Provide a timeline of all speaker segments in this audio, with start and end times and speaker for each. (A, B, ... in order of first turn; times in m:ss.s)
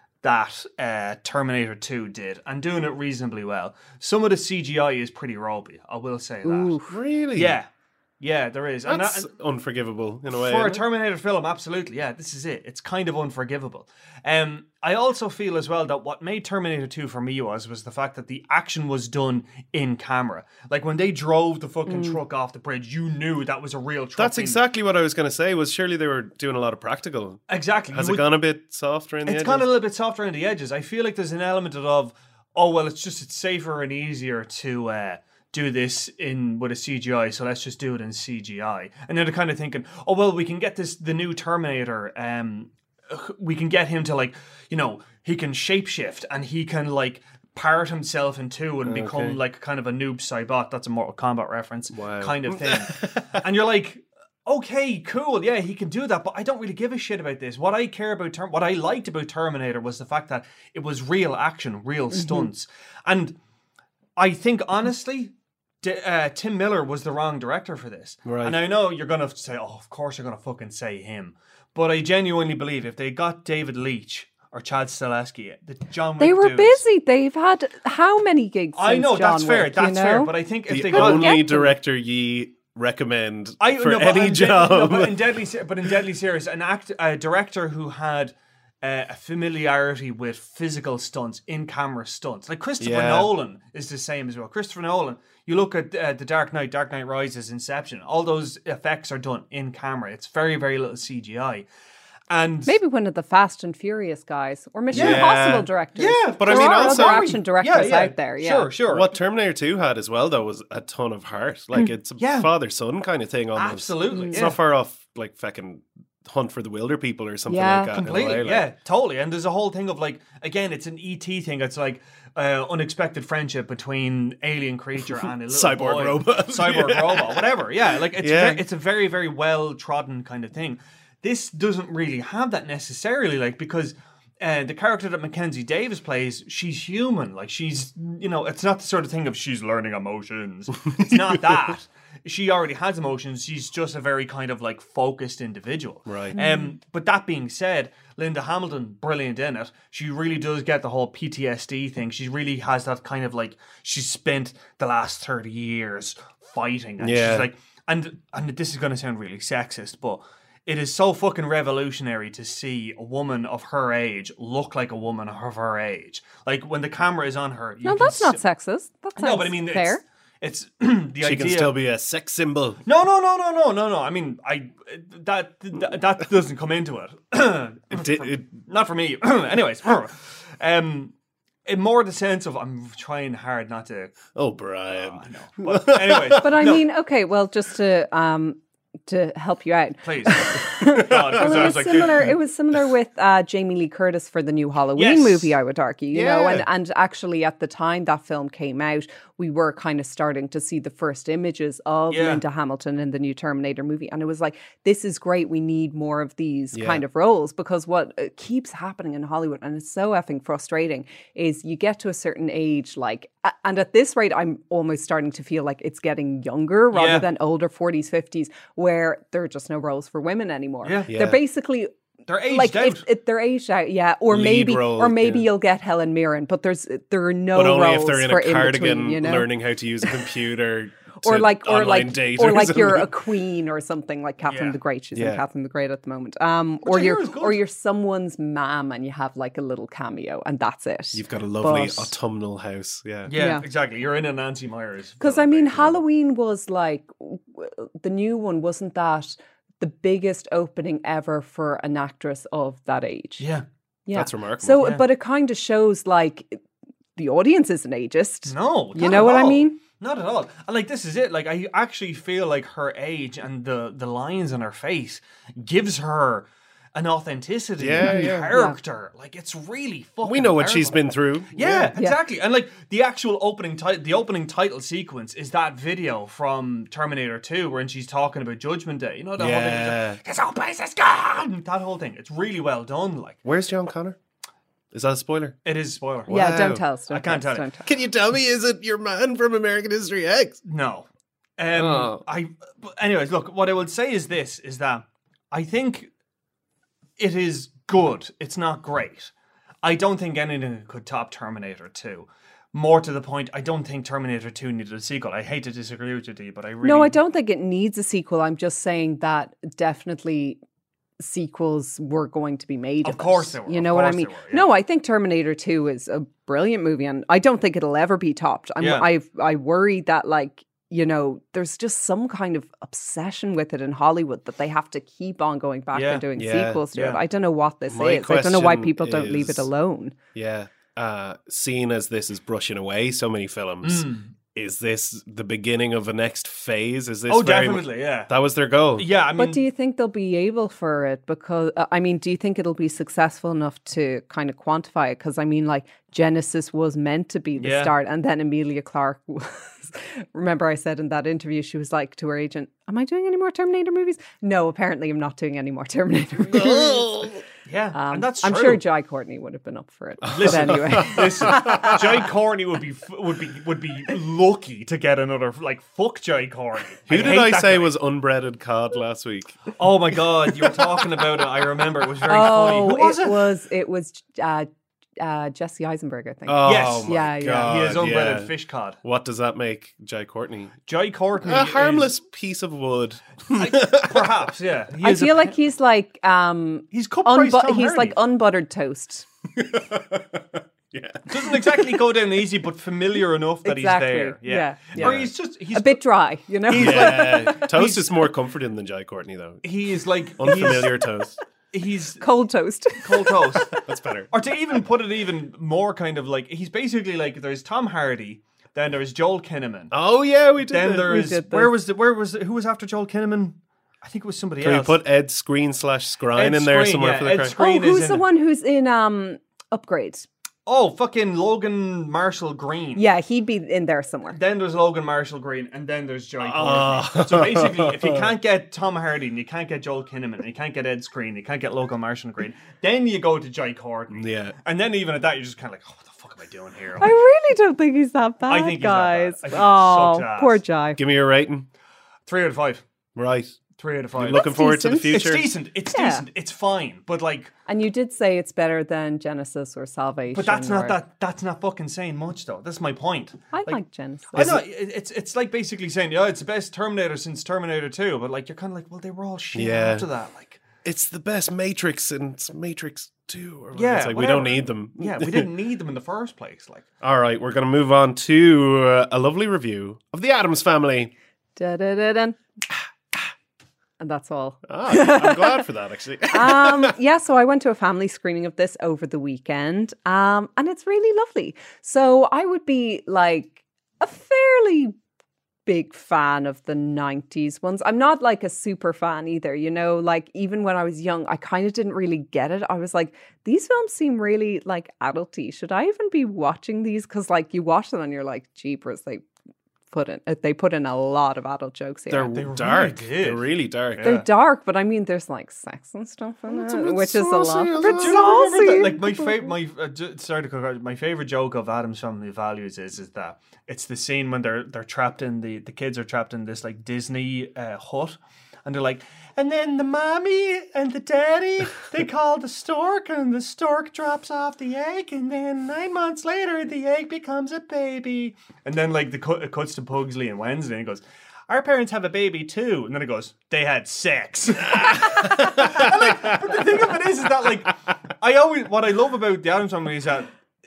0:00.2-0:06.8 A
0:06.4-0:07.0 B
0:06.9-0:07.6 C
0:07.3-0:07.7 A
0:08.2-0:09.3 A
0:08.8-0:10.8 C
0:10.3-0:24.6 A
0:21.9-0:22.2 B
0:24.2-0:27.4 C
0:27.5-0:28.3 A
0:27.9-0:29.7 C
0:29.2-1:03.4 A
0:48.8-0:49.4 C
0:51.9-0:53.4 C
1:04.2-1:16.8 A
1:08.2-1:08.6 C
1:16.2-1:20.3 B
1:18.8-1:21.4 A
1:20.7-1:25.3 C
1:20.9-1:21.7 B
1:23.6-1:41.6 A
1:32.8-1:33.3 C
1:42.3-1:42.8 A
1:42.6-1:48.7 B
1:44.9-1:45.7 C
1:44.9-1:45.3 A
1:46.0-1:49.1 A
1:46.4-1:47.4 C
1:48.9-1:58.7 C
1:52.2-1:52.5 A
1:53.6-1:54.6 A
1:54.1-1:54.5 B
1:57.5-1:58.0 B
1:57.9-2:48.4 A
2:05.2-2:08.6 C
2:21.0-2:21.5 C
2:26.1-2:26.4 C
2:26.3-2:26.7 B
2:37.0-2:37.5 C
2:47.8-2:50.0 B
2:49.2-2:51.7 A
2:51.2-2:52.8 C
2:52.8-3:01.1 A
2:57.9-2:58.6 C
3:01.6-3:04.3 A
3:04.3-3:06.6 C
3:04.9-3:06.8 A
3:06.4-3:41.9 B
3:10.0-3:12.4 A
3:10.8-3:12.3 C
3:15.0-3:15.5 A
3:16.1-3:16.6 C
3:22.1-3:22.4 A
3:26.7-3:27.0 C
3:36.9-3:37.3 A
3:40.8-3:41.1 A
3:41.1-3:41.4 C
3:42.3-3:43.0 A
3:42.4-3:49.5 B
3:44.3-3:45.5 C
3:47.5-3:53.1 C
3:50.0-3:50.3 B
3:51.2-4:02.1 B
3:54.5-3:54.8 A
3:55.1-3:55.4 C
3:56.8-3:57.6 A
4:01.1-4:03.3 C
4:03.3-4:06.0 A
4:03.3-4:03.6 B
4:05.2-4:13.5 B
4:13.4-4:13.6 A
4:14.0-4:16.6 B
4:14.1-4:14.9 C
4:14.8-4:15.0 A
4:17.2-4:19.8 B
4:18.4-4:31.0 A
4:27.8-4:28.5 C
4:28.0-4:28.8 B
4:30.2-4:31.9 C
4:31.5-4:43.4 A
4:39.4-4:40.2 C
4:43.4-4:44.2 C
4:44.9-4:45.5 C
4:45.6-4:46.4 A
4:46.3-4:46.8 C
4:46.3-4:47.9 B
4:47.1-4:47.7 A
4:47.8-4:50.6 C
4:50.6-4:51.0 A
4:51.6-4:56.1 A
4:51.7-4:52.2 C
4:57.2-4:59.3 A
4:59.8-5:07.2 A
5:06.8-5:10.6 B
5:11.2-5:30.1 B
5:13.0-5:14.6 A
5:18.8-5:19.1 A
5:25.9-5:26.2 A
5:26.3-5:26.8 C
5:26.9-5:27.2 A
5:27.9-5:29.7 C
5:30.3-5:39.1 C
5:33.8-5:34.3 A
5:37.3-5:38.3 A
5:39.0-5:39.6 A
5:39.4-5:57.3 B
5:47.6-5:47.9 A
5:56.5-5:57.4 C
5:57.6-5:58.8 A
5:57.9-6:02.0 B
6:00.2-6:02.3 C
6:00.3-6:07.9 A
6:07.1-6:09.7 C
6:09.8-6:13.5 A
6:10.5-6:10.8 C
6:12.3-6:17.7 B
6:16.5-6:18.5 C
6:16.6-6:19.0 A
6:19.0-6:20.7 C
6:20.9-6:22.1 A
6:21.4-6:24.4 C
6:23.5-6:25.6 A
6:25.0-6:29.2 B
6:26.9-6:28.2 A
6:29.5-6:32.0 C
6:31.3-6:36.0 A
6:33.6-6:37.7 B
6:35.0-6:35.3 C
6:36.7-6:38.2 A
6:36.7-6:39.6 C
6:39.6-6:41.0 A
6:40.4-6:41.4 C
6:41.7-6:42.2 A
6:42.2-6:43.7 B
6:43.0-6:43.8 A
6:43.7-6:44.3 C
6:44.3-6:49.9 A
6:49.9-6:51.2 C
6:50.7-6:55.0 A
6:51.0-6:51.7 B
6:54.6-6:57.5 C
6:56.3-6:58.2 A
6:57.5-7:00.3 B
7:00.6-7:03.0 A
7:03.0-7:04.4 B
7:04.3-7:17.1 A
7:06.4-7:08.3 C
7:14.1-7:14.5 C
7:17.0-7:21.0 B
7:18.5-7:20.6 A
7:21.0-7:21.7 C
7:22.2-7:22.8 A
7:23.2-7:23.6 C
7:23.8-7:24.5 A
7:24.1-7:25.5 C
7:24.3-7:25.4 B
7:25.1-7:27.5 A
7:25.9-7:26.2 B
7:27.7-7:31.0 B
7:30.3-7:33.8 A
7:33.5-7:34.6 B
7:34.3-7:40.6 A
7:34.4-7:34.6 C
7:39.5-7:40.1 C
7:40.8-7:45.5 C
7:43.7-7:46.9 A
7:47.0-7:51.1 C
7:51.6-7:52.4 B
7:54.0-7:55.6 B
7:54.7-7:56.9 C
7:56.3-8:04.9 B
8:05.6-8:19.2 B
8:19.9-8:22.4 B
8:22.1-8:24.3 A
8:22.3-8:24.1 C
8:24.0-8:29.5 B
8:26.5-8:28.3 C
8:27.8-9:00.3 A
8:54.6-8:57.5 C